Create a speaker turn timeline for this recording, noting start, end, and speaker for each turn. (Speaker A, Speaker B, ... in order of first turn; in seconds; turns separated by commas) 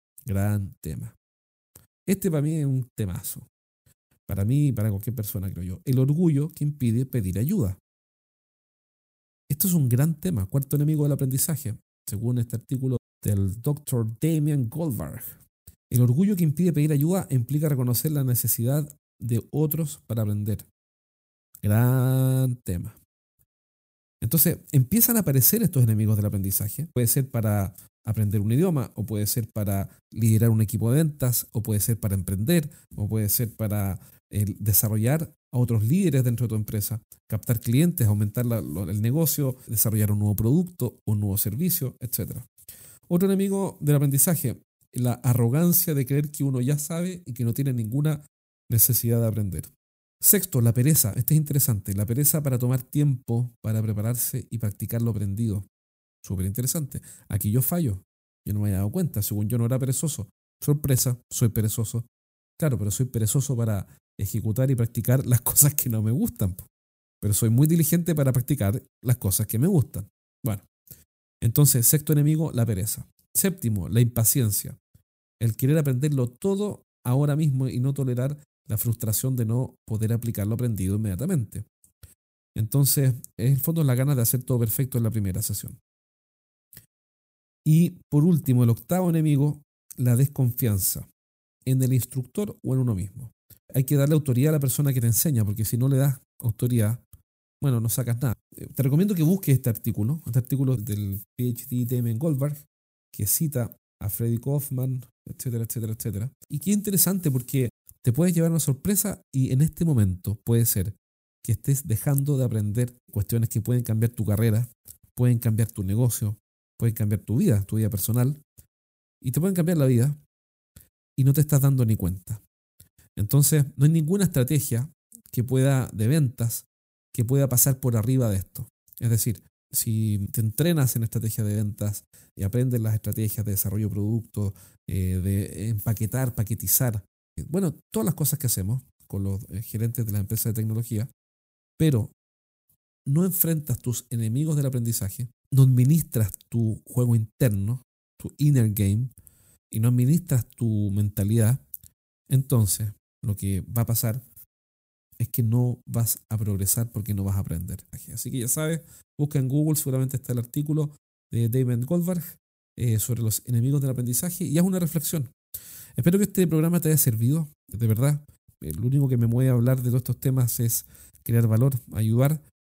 Speaker A: 0.2-1.1, Speaker A: 2.0-3.5, Speaker A: 4.3-7.8, Speaker A: 9.5-15.4, Speaker A: 15.9-20.7, Speaker A: 21.6-23.0, Speaker A: 24.2-42.5, Speaker A: 43.1-55.7, Speaker A: 56.2-62.1, Speaker A: 62.6-66.7, Speaker A: 67.2-70.6, Speaker A: 71.4-74.8, Speaker A: 75.4-81.7, Speaker A: 82.5-85.8, Speaker A: 87.6-91.1, Speaker A: 91.6-97.0, Speaker A: 97.6-118.4, Speaker A: 119.2-120.2, Speaker A: 121.2-122.4, Speaker A: 123.2-141.1, Speaker A: 141.8-142.1, Speaker A: 143.0-149.1, Speaker A: 149.7-151.6, Speaker A: 152.3-154.2, Speaker A: 155.2-165.3, Speaker A: 166.0-172.4